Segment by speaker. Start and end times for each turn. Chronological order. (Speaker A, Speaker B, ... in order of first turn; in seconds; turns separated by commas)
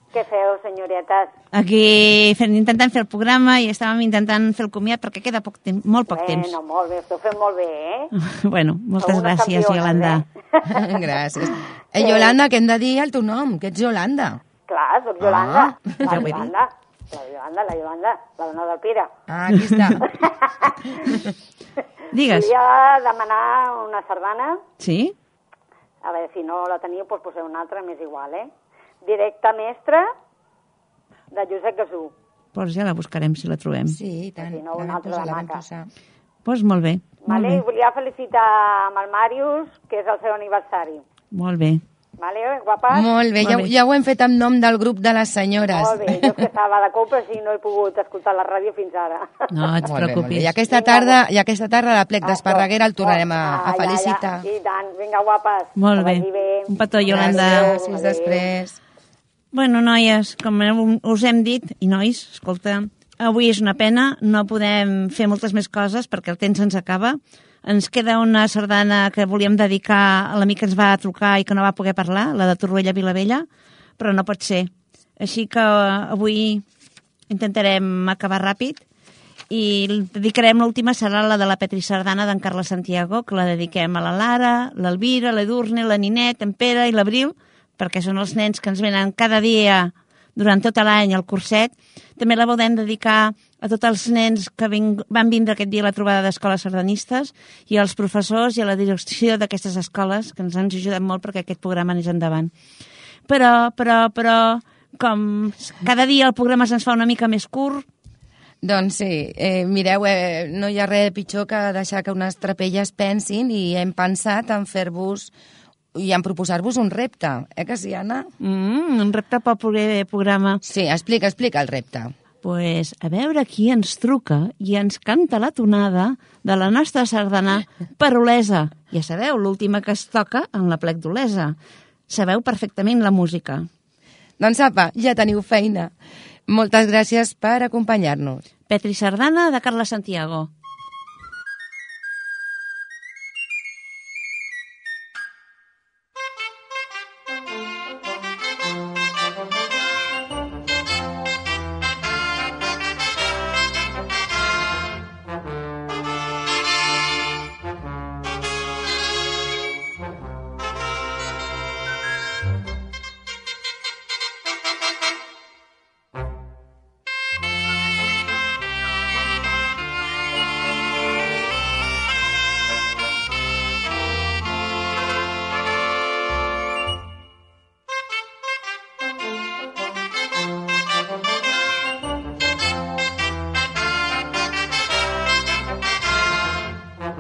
Speaker A: 0.1-1.3, Speaker B: 1.5-6.6, Speaker A: 6.1-8.1, Speaker B: 8.2-10.2, Speaker A: 9.0-11.0, Speaker C: 10.7-14.4, Speaker A: 12.0-12.3, Speaker A: 14.7-19.1, Speaker C: 15.2-16.0, Speaker B: 16.1-16.5, Speaker C: 19.3-20.1, Speaker B: 19.5-19.9, Speaker A: 20.1-20.8, Speaker B: 22.1-22.5, Speaker A: 22.2-24.6, Speaker B: 24.8-25.1, Speaker A: 26.0-28.5, Speaker A: 29.0-30.1, Speaker A: 31.3-32.1, Speaker B: 32.5-34.0, Speaker C: 33.9-35.9, Speaker A: 34.4-35.6, Speaker B: 36.5-37.6, Speaker A: 37.2-41.0, Speaker B: 41.3-41.8, Speaker A: 42.2-43.1, Speaker C: 42.9-46.5, Speaker B: 43.4-43.7, Speaker A: 45.7-49.3, Speaker B: 49.5-50.6, Speaker C: 49.8-54.5, Speaker A: 50.7-51.2, Speaker A: 52.2-58.5, Speaker B: 55.8-57.8, Speaker C: 57.1-58.8, Speaker B: 59.5-73.5, Speaker B: 74.0-76.6, Speaker B: 77.3-78.8, Speaker B: 79.5-102.5, Speaker B: 103.3-107.9, Speaker C: 108.6-115.3, Speaker C: 115.9-118.3, Speaker B: 118.4-120.6, Speaker C: 120.6-122.1, Speaker B: 122.4-131.6, Speaker B: 132.1-133.7, Speaker C: 134.4-135.9, Speaker C: 136.5-138.4, Speaker B: 138.7-140.5